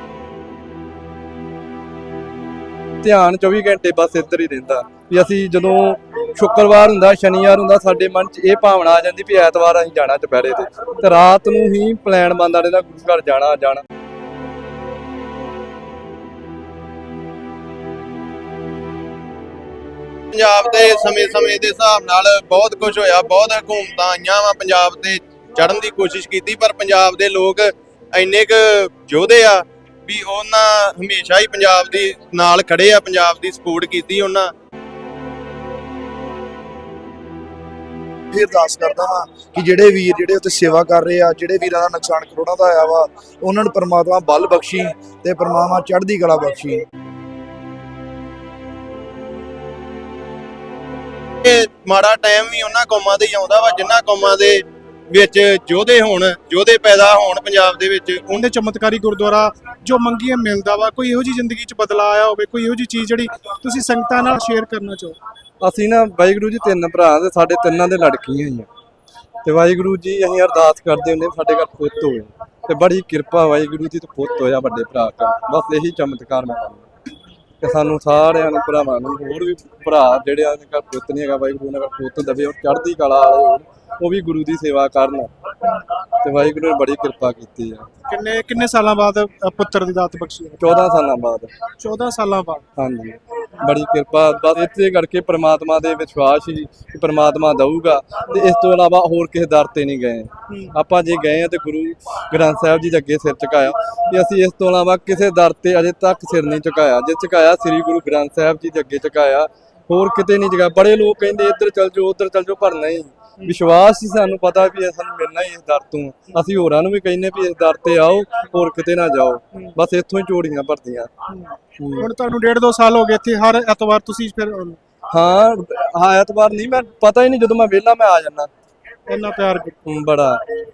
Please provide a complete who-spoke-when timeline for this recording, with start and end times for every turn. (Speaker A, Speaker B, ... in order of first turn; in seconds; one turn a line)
Speaker A: 3.0-13.8
Speaker B: 20.3-34.5
Speaker C: 38.3-46.8
Speaker B: 51.4-58.3
Speaker D: 58.3-65.2
Speaker A: 65.6-68.7
Speaker A: 69.4-76.9
Speaker A: 77.6-85.3
Speaker A: 86.2-87.9
Speaker D: 88.1-90.6
Speaker A: 90.6-91.5
Speaker D: 91.8-92.6
Speaker A: 92.8-121.1
Speaker D: 121.3-124.8
Speaker A: 121.8-122.1
Speaker A: 125.1-128.5
Speaker D: 129.1-129.8
Speaker A: 129.9-130.4